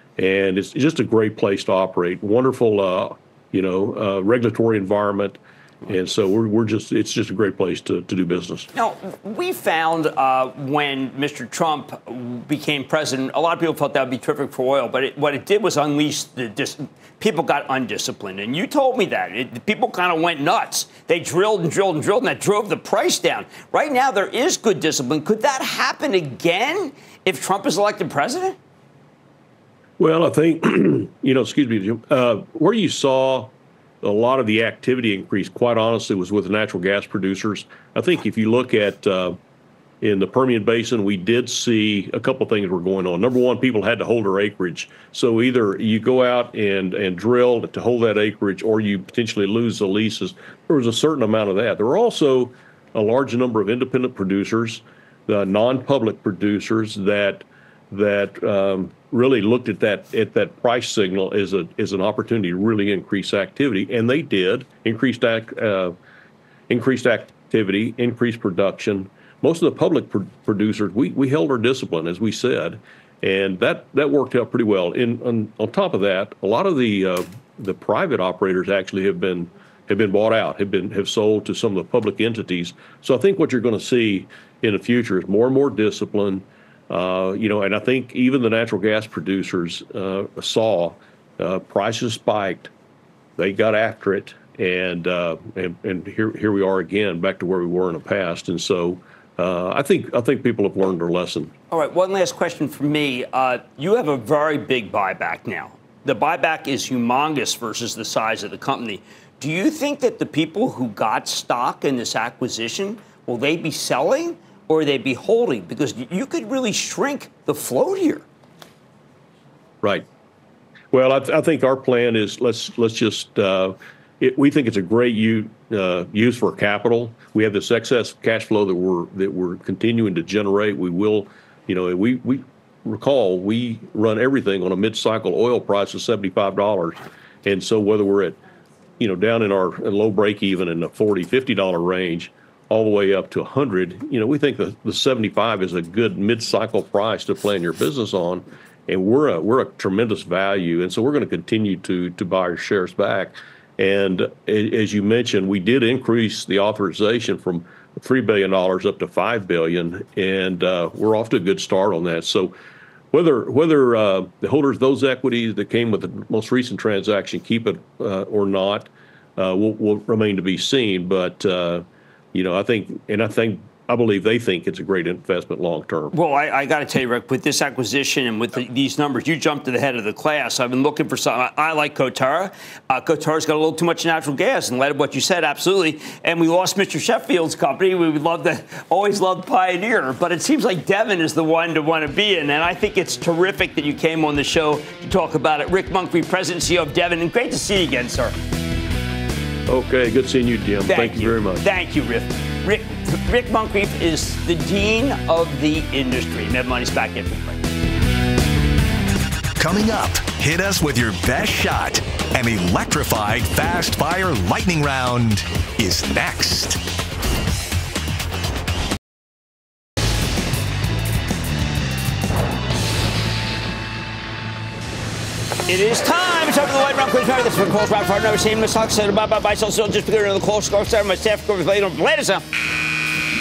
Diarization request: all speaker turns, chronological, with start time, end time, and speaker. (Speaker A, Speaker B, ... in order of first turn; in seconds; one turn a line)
Speaker A: 0.2-8.7
Speaker B: 8.7-28.6
Speaker A: 30.0-39.4
Speaker A: 40.0-65.9
Speaker A: 66.7-92.7
Speaker A: 93.4-101.5
Speaker B: 101.7-118.2
Speaker A: 120.9-138.4
Speaker A: 139.0-162.5
Speaker A: 163.1-176.1
Speaker B: 176.1-198.3
Speaker A: 199.7-201.7
Speaker B: 200.9-207.6
Speaker C: 209.6-216.8
Speaker B: 225.7-232.4